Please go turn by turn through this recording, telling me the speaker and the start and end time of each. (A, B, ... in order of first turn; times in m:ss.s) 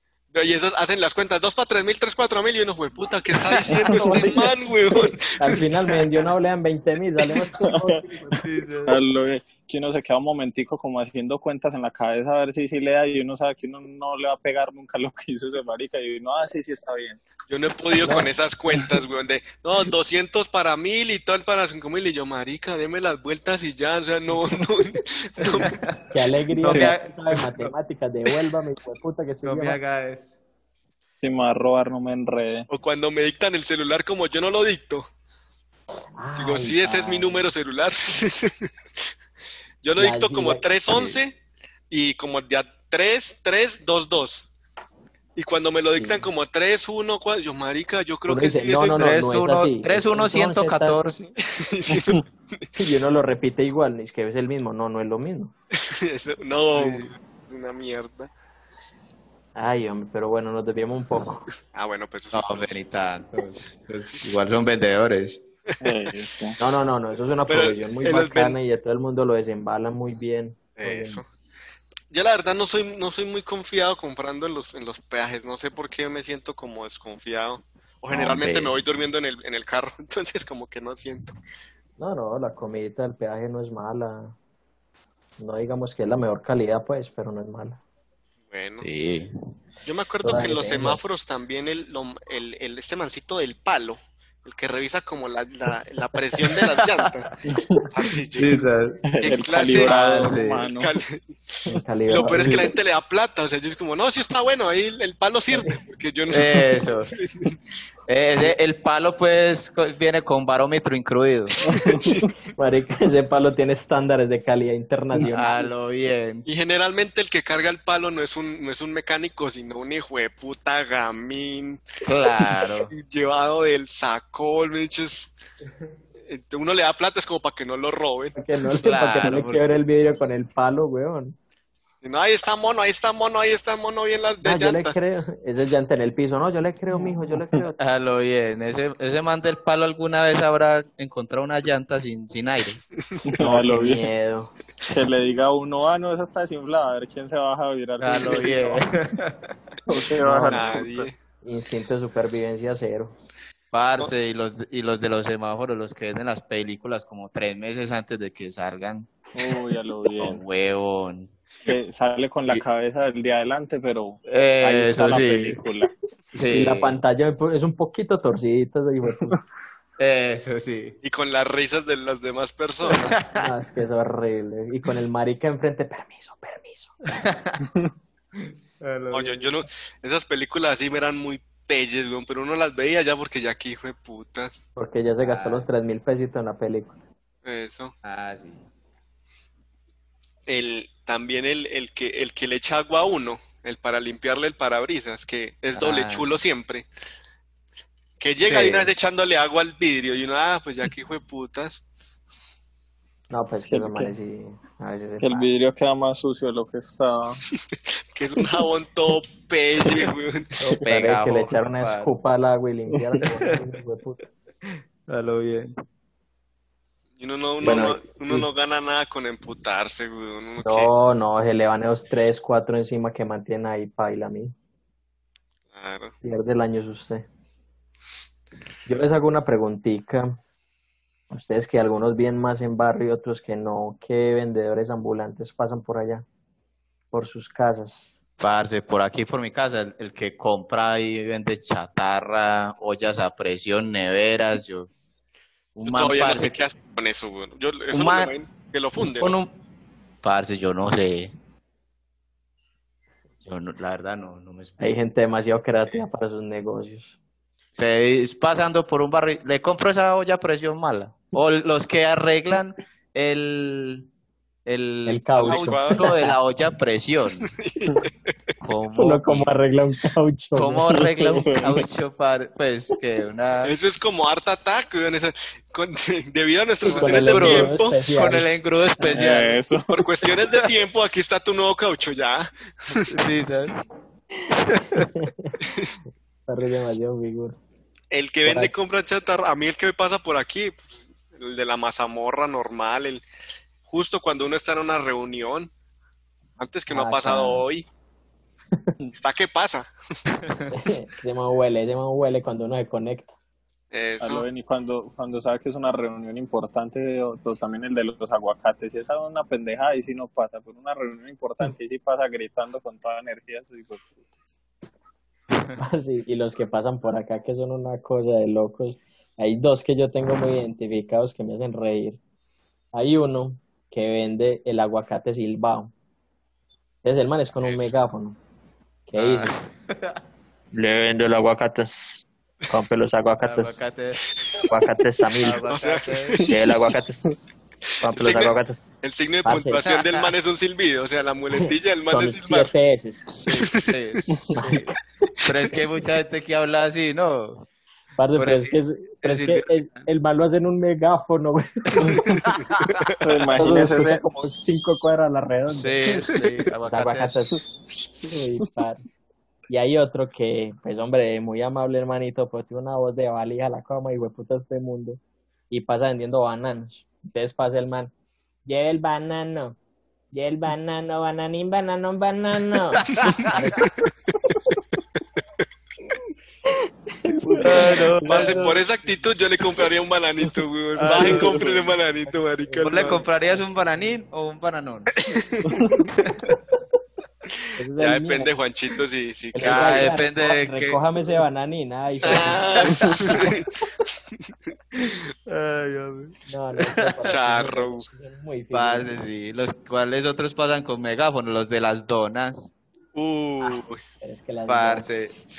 0:00.3-0:05.5 A
0:03.5-0:04.0 B
0:03.7-0:04.5 C
0:05.3-0:08.4 C
0:08.3-0:09.0 B
0:08.8-0:17.2 D
0:17.5-0:25.8 A
0:18.0-0:18.3 C
0:25.6-0:26.0 B
0:26.1-0:29.8 C
0:26.6-0:27.7 B
0:26.6-0:26.9 D
0:29.4-0:30.4 B
0:31.2-0:32.7 D
0:32.7-0:35.0 A
0:36.2-0:37.5 C
0:36.4-0:38.7 A
0:39.8-0:41.3 A
0:40.0-0:41.2 C
0:41.9-0:44.5 A
0:45.4-0:49.0 A
0:45.9-0:46.3 C
0:48.3-0:51.0 C
0:48.9-0:51.3 B
0:51.4-0:52.6 A
0:51.9-0:52.2 D
0:52.8-0:55.5 C
0:55.8-0:58.3 A
0:56.7-0:57.1 B
0:59.5-1:01.5 C
1:01.7-1:02.8 A
1:02.3-1:05.4 B
1:05.8-1:06.6 D
1:06.6-1:11.2 C
1:07.5-1:08.6 A
1:10.8-1:11.2 A
1:12.1-1:21.4 A
1:18.1-1:18.8 B
1:22.0-1:24.4 C
1:25.4-1:27.8 C
1:28.5-1:28.9 A
1:28.8-1:29.3 B
1:29.8-1:37.3 A
1:30.2-1:31.0 C
1:36.4-1:37.1 B
1:37.5-1:37.8 D
1:37.9-1:38.6 A
1:38.4-1:39.0 B
1:39.1-1:40.9 D
1:39.2-1:41.3 A
1:39.8-1:40.7 B
1:41.6-1:42.7 C
1:42.1-1:47.5 A
1:45.5-1:45.8 C
1:46.3-1:47.1 B
1:48.1-1:51.6 B
1:51.6-1:52.2 D
1:51.7-1:52.3 A
1:52.6-1:55.7 C
1:55.3-1:56.4 B
1:56.4-2:01.8 A
2:02.0-2:02.9 B
2:02.9-2:05.3 A
2:06.3-2:08.4 A
2:08.3-2:11.4 C
2:08.8-2:09.8 B
2:12.0-2:15.0 A
2:14.4-2:17.8 C
2:16.9-2:17.6 D
2:17.8-2:22.8 B
2:23.2-2:24.1 D
2:23.4-2:24.5 C
2:24.9-2:28.8 D
2:28.0-2:29.5 B
2:29.8-2:31.1 D
2:30.2-2:30.8 C
2:30.5-2:31.2 A
2:31.4-2:33.1 C
2:33.7-2:39.1 B
2:39.3-2:40.4 D
2:40.2-2:41.3 B
2:41.6-2:45.9 D
2:44.3-2:45.6 B
2:46.3-2:47.0 B
2:46.5-2:49.4 C
2:50.0-2:51.0 B
2:51.0-2:53.2 A
2:52.9-2:53.5 B
2:53.4-2:57.1 C
2:57.1-2:57.6 B
2:58.3-2:59.5 B
2:59.1-3:04.6 A
3:04.8-3:07.0 C
3:05.2-3:05.7 B
3:07.4-3:07.9 A
3:08.0-3:08.6 B
3:10.5-3:16.8 A
3:15.7-3:16.3 B
3:18.2-3:21.8 A
3:18.4-3:18.9 B
3:23.3-3:25.5 C
3:23.7-3:24.1 D
3:25.2-3:27.4 D
3:28.1-3:30.5 A
3:30.6-3:32.1 B
3:30.8-3:34.2 C
3:34.6-3:35.8 B
3:37.2-3:40.9 A
3:37.6-3:38.4 C
3:40.6-3:44.5 C
3:45.7-3:46.1 A
3:46.2-3:47.2 C
3:48.8-3:50.4 C
3:51.3-3:56.2 C
3:57.1-3:58.1 C
3:58.4-4:04.9 B
4:05.7-4:06.6 B
4:05.8-4:09.4 A
4:07.9-4:08.3 B
4:09.2-4:09.5 B
4:10.2-4:11.3 B
4:13.4-4:14.8 B
4:14.8-4:17.1 C
4:17.7-4:24.1 B
4:24.6-4:27.5 B
4:25.0-4:26.3 C
4:25.4-4:26.1 A
4:27.4-4:28.1 A
4:28.6-4:29.5 B
4:29.0-4:31.4 C
4:30.5-4:33.7 B
4:30.9-4:31.8 D
4:33.6-4:38.0 A
4:36.8-4:39.6 B
4:36.9-4:38.5 C
4:39.0-4:40.0 D
4:39.9-4:43.1 A
4:40.2-4:40.7 B
4:43.1-4:43.8 B
4:44.6-4:45.1 B
4:44.9-4:45.6 C
4:46.5-4:47.6 C
4:48.1-4:53.2 A
4:48.4-4:48.7 C
4:53.8-4:55.7 A
4:56.6-4:57.8 A
4:56.9-4:57.6 C
4:59.2-4:59.9 A
5:00.3-5:00.7 B
5:00.7-5:03.3 C
5:03.9-5:04.4 A
5:04.2-5:14.2 D
5:15.5-5:15.8 B
5:15.8-5:22.2 C
5:22.9-5:25.9 C
5:27.0-5:28.4 C
5:29.1-5:29.5 C
5:29.2-5:30.2 B
5:30.7-5:33.9 C
5:33.4-5:34.3 B
5:34.6-5:35.6 C
5:35.4-5:36.4 B
5:35.7-5:36.4 A
5:36.4-5:37.3 C
5:38.0-5:39.8 C
5:38.0-5:42.7 A
5:39.8-5:40.3 B
5:41.6-5:43.4 C
5:43.4-5:44.9 B
5:43.6-5:43.9 A
5:44.3-5:44.6 D
5:44.6-5:45.0 C
5:45.4-5:47.7 B
5:48.2-5:52.2 C
5:48.4-5:50.1 B
5:52.0-5:52.3 D
5:52.4-5:53.1 B
5:53.2-5:54.2 D
5:53.5-5:56.0 C
5:55.7-5:57.4 B
5:56.8-5:57.6 C
5:58.2-5:59.0 C
5:59.7-6:08.1 C
6:08.6-6:09.8 C
6:10.3-6:13.9 C
6:13.0-6:13.6 B
6:17.2-6:18.6 C
6:17.6-6:18.8 B
6:18.2-6:23.2 A
6:21.0-6:21.8 B
6:21.1-6:23.6 C
6:22.8-6:25.1 B
6:25.2-6:25.9 A
6:26.2-6:26.4 B
6:27.8-6:28.5 C
6:28.0-6:30.2 A
6:29.5-6:33.0 C
6:29.6-6:31.0 B
6:32.2-6:33.6 A
6:32.2-6:33.5 B
6:34.9-6:37.3 B
6:36.5-6:39.2 C
6:37.2-6:38.1 A
6:38.7-6:42.7 B
6:43.1-6:44.0 A
6:43.6-6:45.1 C
6:44.7-6:45.3 B